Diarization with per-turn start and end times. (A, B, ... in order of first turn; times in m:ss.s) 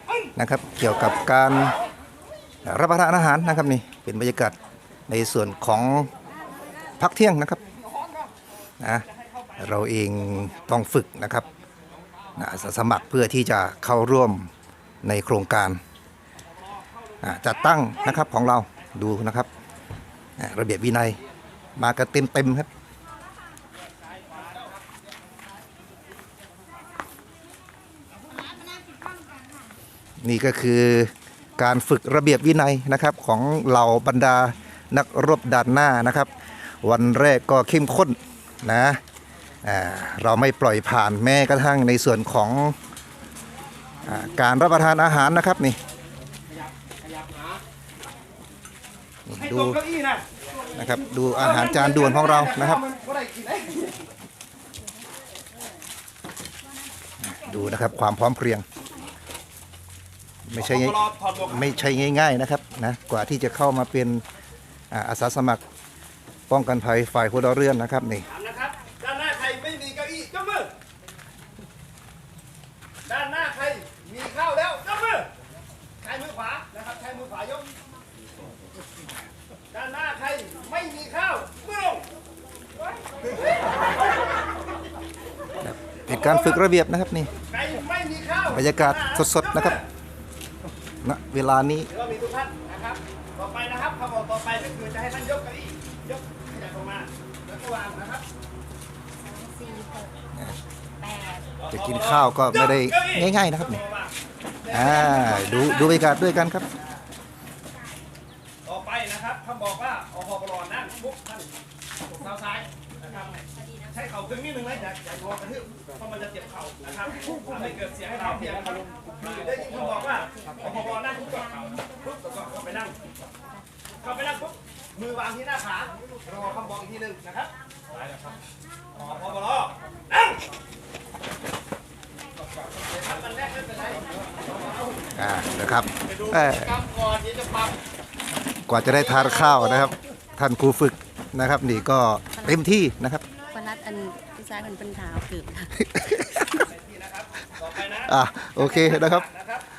0:00.4-0:01.8 A
0:02.6-0:04.6 A
0:05.1-0:06.1 A
0:07.0-0:07.6 A
0:08.8-0:09.0 A
0:09.1-0:09.6 B
0:09.6-0:11.5 A
0:12.4-0:14.5 A
0:15.0-0:15.8 A
0:17.2-0:19.5 A
0:20.4-0:21.2 A
0:21.8-0:22.7 A
0:30.2-0:36.3 A
0:36.8-0:39.0 A
0:39.6-0:42.8 A
0:44.0-0:45.8 A
0:47.0-0:47.6 B
0:49.3-0:49.8 A
0:49.3-0:50.2 B
0:50.8-0:52.8 A
0:51.4-0:53.9 B
0:57.2-0:58.6 A
1:00.5-1:04.2 A
1:00.6-1:01.8 B
1:04.9-1:05.6 A
1:06.5-1:08.2 A
1:08.3-1:10.7 B
1:13.0-1:15.3 B
1:16.0-1:17.7 B
1:19.7-1:22.1 B
1:25.6-1:27.3 A
1:26.1-1:26.6 B
1:27.4-1:29.9 B
1:28.5-1:29.8 A
1:31.0-1:31.9 A
1:31.9-1:38.2 B
1:39.2-1:40.1 C
1:41.0-1:41.5 C
1:41.6-1:44.1 B
1:41.7-1:43.8 A
1:44.6-1:46.0 B
1:44.7-1:46.6 A
1:48.6-2:03.0 B
2:04.0-2:07.5 B
2:09.0-2:10.4 B
2:12.8-2:15.1 B
2:15.2-2:16.8 A
2:16.0-2:17.8 B
2:18.7-2:23.2 A
2:18.9-2:19.9 B
2:23.5-2:25.8 C
2:25.8-2:26.7 A
2:26.6-2:29.6 B
2:27.9-2:29.3 A